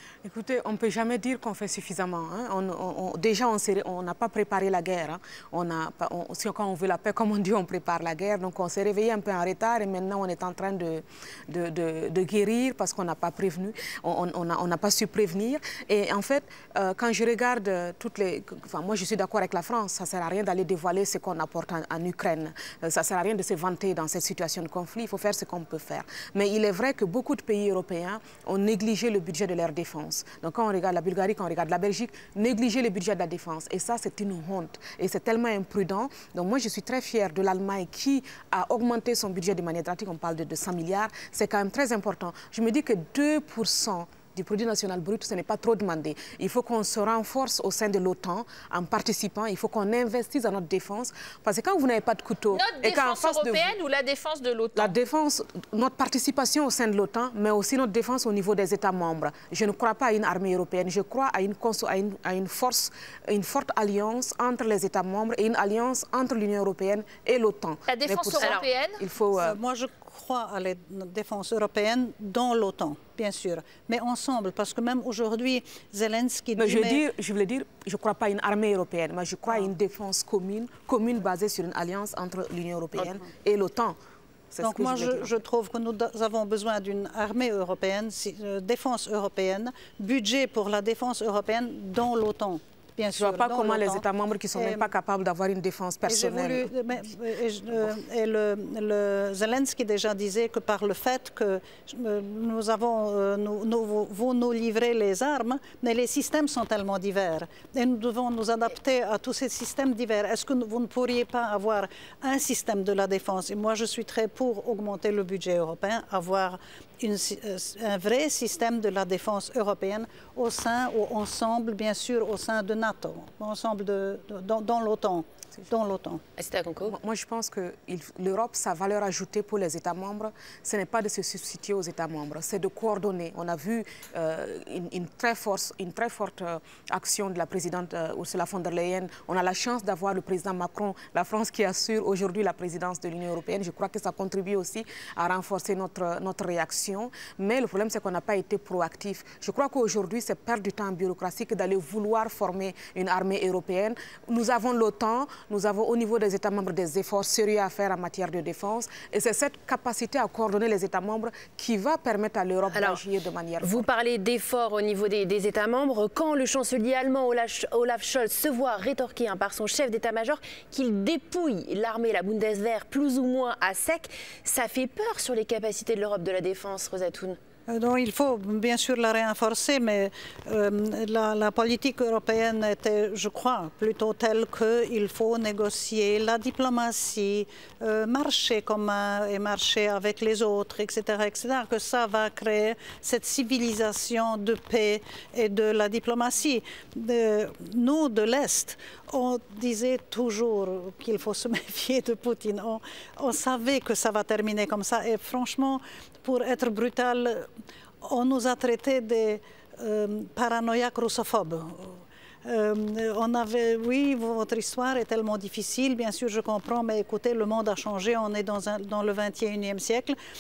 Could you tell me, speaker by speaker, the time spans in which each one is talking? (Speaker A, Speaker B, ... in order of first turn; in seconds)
Speaker A: 0.2-53.7, 54.8-69.6, 76.6-84.0, 84.5-85.3, 93.2-96.7, 126.8-163.9
Speaker B: 52.5-54.9, 67.9-69.0
Speaker C: 68.4-68.7, 126.4-126.9, 162.7-163.0, 163.6-177.4
Speaker D: 69.3-77.0, 84.6-94.9, 96.1-126.2, 177.7-207.5, 208.0-220.2